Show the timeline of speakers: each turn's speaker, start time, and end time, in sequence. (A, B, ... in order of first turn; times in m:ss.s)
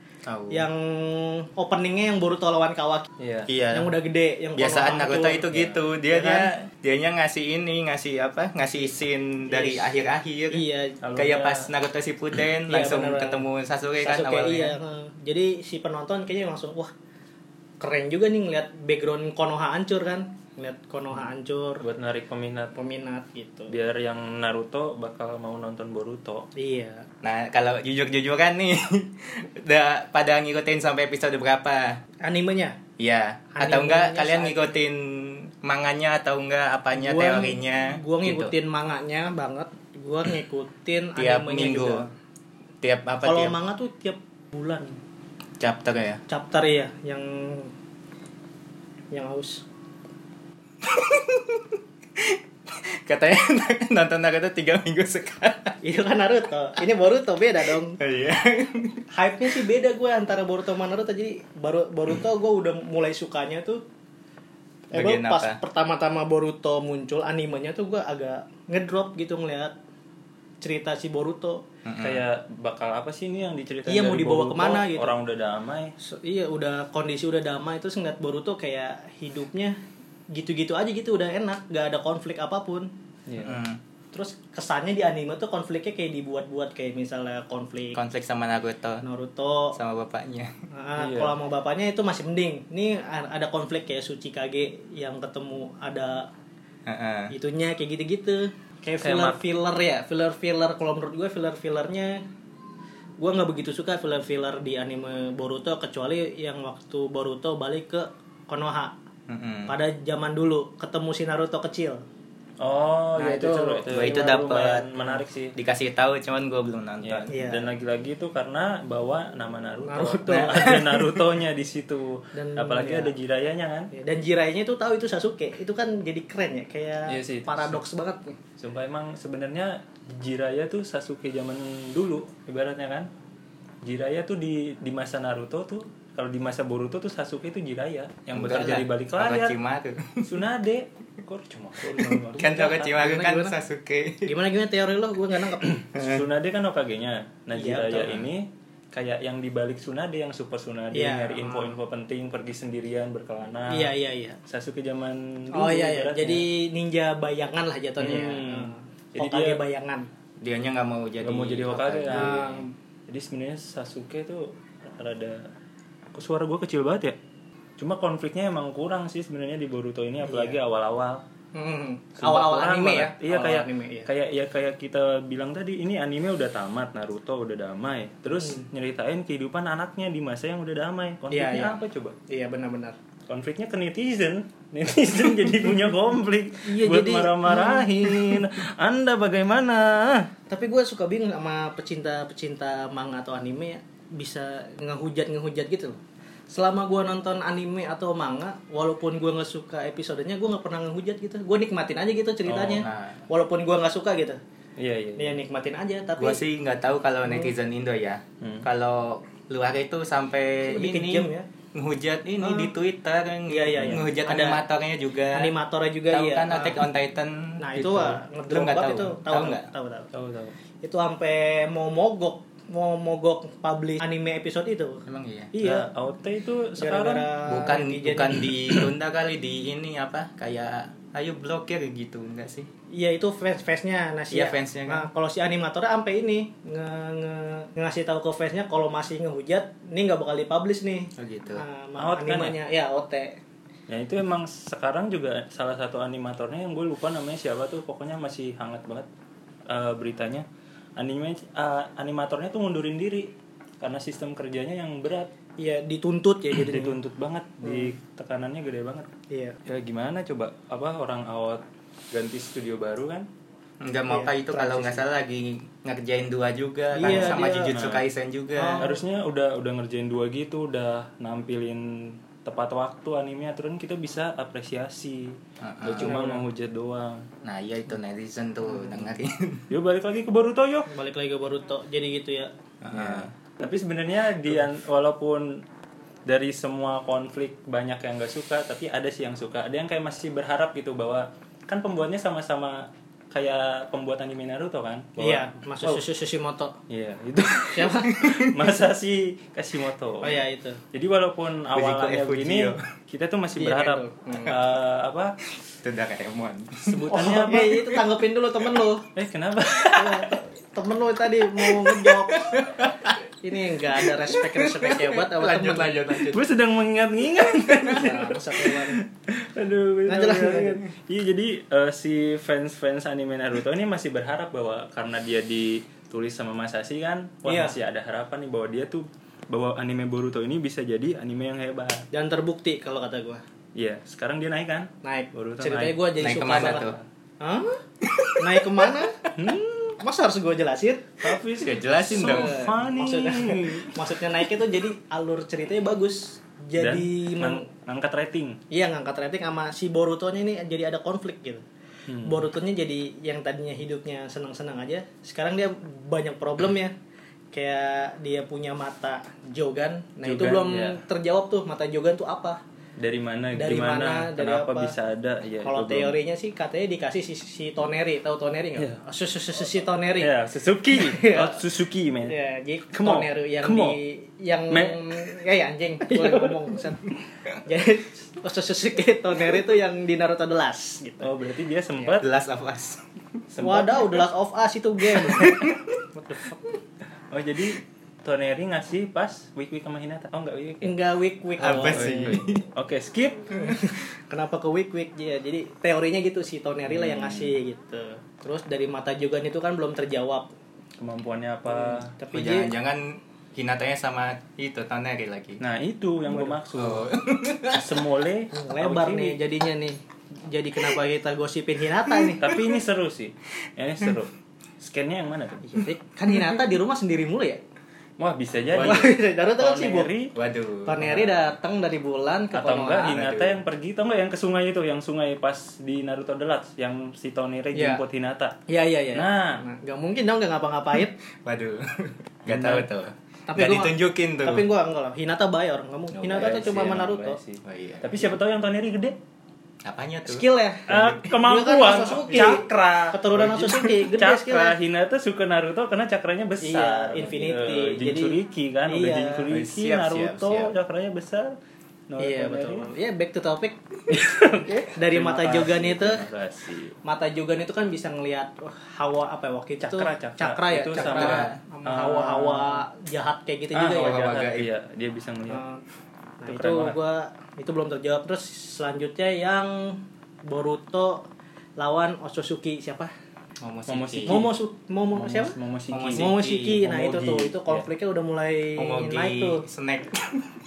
0:00.2-0:00.6 A
0:00.5-0:03.1 B
0:03.2-0:03.5 C
0:03.5-0:03.9 A
0:03.7-0:05.5 B
0:04.6-0:10.6 A
0:06.1-0:06.5 B
0:09.5-0:11.0 B
0:11.0-0:11.7 C
0:11.2-0:14.8 A
0:12.7-0:13.4 B
0:14.0-0:16.9 B
0:17.8-0:21.8 B
0:21.8-0:22.7 C
0:22.8-0:23.8 B
0:23.7-0:26.5 C
0:26.6-0:27.0 B
0:27.2-0:32.0 A
0:32.2-0:32.8 B
0:33.0-0:38.5 A
0:33.5-0:34.7 B
0:36.9-0:42.1 B
0:41.2-0:42.0 A
0:42.8-0:43.6 A
0:43.2-0:45.0 B
0:45.6-0:46.2 A
0:46.3-0:47.7 B
0:49.1-0:49.6 B
0:50.8-0:55.8 A
0:55.8-0:58.0 B
0:58.0-0:59.0 A
0:59.1-1:03.8 B
1:04.9-1:09.7 B
1:04.9-1:05.6 A
1:10.6-1:11.6 B
1:11.8-1:12.2 A
1:12.0-1:15.9 C
1:13.8-1:15.2 B
1:16.0-1:19.8 B
1:20.3-1:22.9 B
1:23.3-1:23.6 C
1:23.4-1:23.8 A
1:24.1-1:28.0 B
1:27.9-1:29.0 A
1:29.0-1:29.8 B
1:29.7-1:30.5 A
1:30.7-1:36.3 B
1:31.0-1:31.3 C
1:36.8-1:37.3 A
1:37.3-1:42.2 B
1:39.0-1:39.4 C
1:43.2-1:48.9 B
1:49.3-1:49.7 A
1:49.7-1:52.0 B
1:52.6-1:55.5 C
1:53.2-1:54.4 B
1:53.9-1:54.9 A
1:55.5-1:57.3 A
1:57.0-2:03.9 C
1:57.3-1:57.7 B
1:59.9-2:01.0 B
2:00.3-2:00.8 A
2:02.3-2:03.1 B
2:03.9-2:08.4 B
2:07.1-2:07.8 C
2:08.6-2:13.1 C
2:13.8-2:19.5 C
2:18.3-2:20.4 A
2:20.2-2:23.0 C
2:22.3-2:24.3 A
2:22.9-2:23.5 B
2:24.2-2:25.7 B
2:25.6-2:33.9 C
2:25.9-2:26.2 A
2:27.5-2:28.2 B
2:30.9-2:31.8 B
2:33.7-2:34.4 B
2:34.5-2:36.4 C
2:35.5-2:40.1 B
2:38.0-2:39.6 C
2:40.4-2:42.6 A
2:41.2-2:42.5 C
2:42.1-2:42.7 B
2:43.1-2:45.5 C
2:46.1-2:47.2 C
2:47.8-2:51.2 C
2:50.2-2:50.6 B
2:51.5-2:54.1 B
2:52.2-3:02.2 C
2:58.4-2:58.6 B
3:01.3-3:03.0 B
3:03.3-3:10.3 C
3:06.6-3:08.4 B
3:10.5-3:24.4 B
3:22.5-3:22.8 C
3:22.6-3:23.2 A
3:24.8-3:25.4 C
3:25.2-3:26.4 B
3:26.2-3:35.5 A
3:27.2-3:27.5 B
3:28.4-3:28.7 C
3:30.7-3:31.4 B
3:32.4-3:32.7 B
3:33.5-3:34.6 B
3:33.8-3:34.1 C
3:35.3-3:36.8 B
3:36.1-3:39.7 A
3:37.6-3:40.1 B
3:40.1-3:40.5 C
3:40.8-3:45.9 B
3:45.0-3:45.5 A
3:45.6-3:47.3 C
3:46.8-3:48.8 B
3:47.4-3:52.7 A
3:52.9-4:03.4 B
3:54.3-3:55.1 A
4:01.2-4:01.6 A
4:02.0-4:02.5 C
4:03.9-4:09.1 C
4:09.7-4:10.4 C
4:11.0-4:15.3 C
4:15.6-4:17.0 B
4:16.5-4:19.1 C
4:17.6-4:17.9 B
4:19.3-4:19.6 B
4:19.6-4:23.2 C
4:23.8-4:28.8 A
4:24.1-4:25.0 B
4:27.0-4:27.7 B
4:27.0-4:28.1 C
4:28.6-4:29.0 B
4:28.8-4:37.2 C
4:35.6-4:36.2 A
4:36.0-4:36.4 B
4:37.4-4:39.6 A
4:39.7-4:40.9 C
4:40.9-4:42.5 B
4:42.8-4:43.3 A
4:42.9-4:45.6 C
4:46.2-4:56.0 C
4:55.2-4:56.8 B
4:56.9-5:00.4 C
4:57.7-4:58.2 B
4:58.2-4:58.6 A
5:00.2-5:00.8 B
5:00.9-5:05.3 C
5:01.7-5:02.8 A
5:03.6-5:04.6 B
5:05.8-5:07.2 A
5:06.8-5:08.0 C
5:07.1-5:09.1 B
5:09.1-5:10.3 C
5:09.9-5:12.6 B
5:12.1-5:13.2 A
5:13.4-5:16.0 B
5:14.0-5:16.5 A
5:16.3-5:32.1 C
5:17.8-5:19.0 B
5:20.1-5:20.8 B
5:27.4-5:27.7 B
5:32.1-5:33.4 B
5:33.8-5:37.0 C
5:35.0-5:37.8 B
5:36.2-5:37.0 A
5:38.0-5:39.0 A
5:38.4-5:39.3 B
5:39.3-5:40.0 C
5:40.0-5:41.2 B
5:41.2-5:44.2 C
5:41.6-5:42.6 A
5:42.1-5:47.6 B
5:46.8-5:48.6 C
5:48.7-5:51.6 B
5:52.1-5:52.5 C
5:52.2-5:56.9 B
5:57.5-6:02.6 B
6:00.2-6:01.0 C
6:03.0-6:06.2 C
6:03.6-6:04.9 B
6:05.6-6:10.3 B
6:10.2-6:12.4 C
6:10.9-6:11.6 B
6:12.2-6:17.0 B
6:12.9-6:14.0 C
6:14.7-6:15.4 C
6:16.0-6:16.7 C
6:17.6-6:21.3 B
6:21.2-6:22.2 C
6:22.2-6:23.1 A
6:23.5-6:24.2 C
6:23.6-6:25.6 B
6:25.2-6:26.0 A
6:26.1-6:26.6 B
6:27.3-6:30.9 C
6:30.8-6:32.4 B
6:31.6-6:32.6 A
6:31.7-6:33.7 C
6:33.6-6:40.5 B
6:36.9-6:37.5 C
6:41.0-6:42.1 C
6:41.7-6:42.7 B
6:42.3-6:45.6 A
6:45.6-6:47.1 C
6:46.7-6:48.0 A
6:47.7-6:49.4 C
6:48.5-6:52.4 B
6:52.1-6:52.7 A
6:52.4-6:55.8 C
6:55.6-6:57.6 B
6:58.2-7:00.3 C
6:58.7-6:59.1 A
6:58.8-7:00.1 B
7:00.3-7:01.2 A
7:00.8-7:03.2 B
7:02.5-7:08.6 C
7:03.1-7:03.6 A
7:07.7-7:08.0 B
7:08.7-7:11.2 B
7:09.1-7:09.6 C
7:11.3-7:14.6 A
7:12.5-7:12.9 C
7:13.5-7:17.4 B
7:16.1-7:16.6 A
7:16.4-7:19.2 C
7:17.6-7:18.4 A
7:19.8-7:21.2 A
7:20.2-7:24.8 B
7:20.9-7:31.6 C
7:26.6-7:29.4 B
7:29.5-7:30.7 A
7:32.1-7:32.9 C
7:32.2-7:33.8 B
7:34.1-7:36.9 C
7:34.9-7:36.2 B
7:37.0-7:44.2 B
7:39.8-7:42.8 C
7:40.9-7:41.6 A
7:43.7-7:45.6 C
7:43.9-7:44.7 A
7:45.5-7:45.8 B
7:46.4-7:51.3 B
7:46.5-7:47.0 C
7:51.8-7:53.1 B
7:53.6-7:54.4 A
7:53.9-7:54.5 C
7:54.3-7:55.5 B
7:55.1-7:57.8 C
7:55.9-7:56.8 A
7:56.1-7:59.6 B
7:58.8-8:00.4 A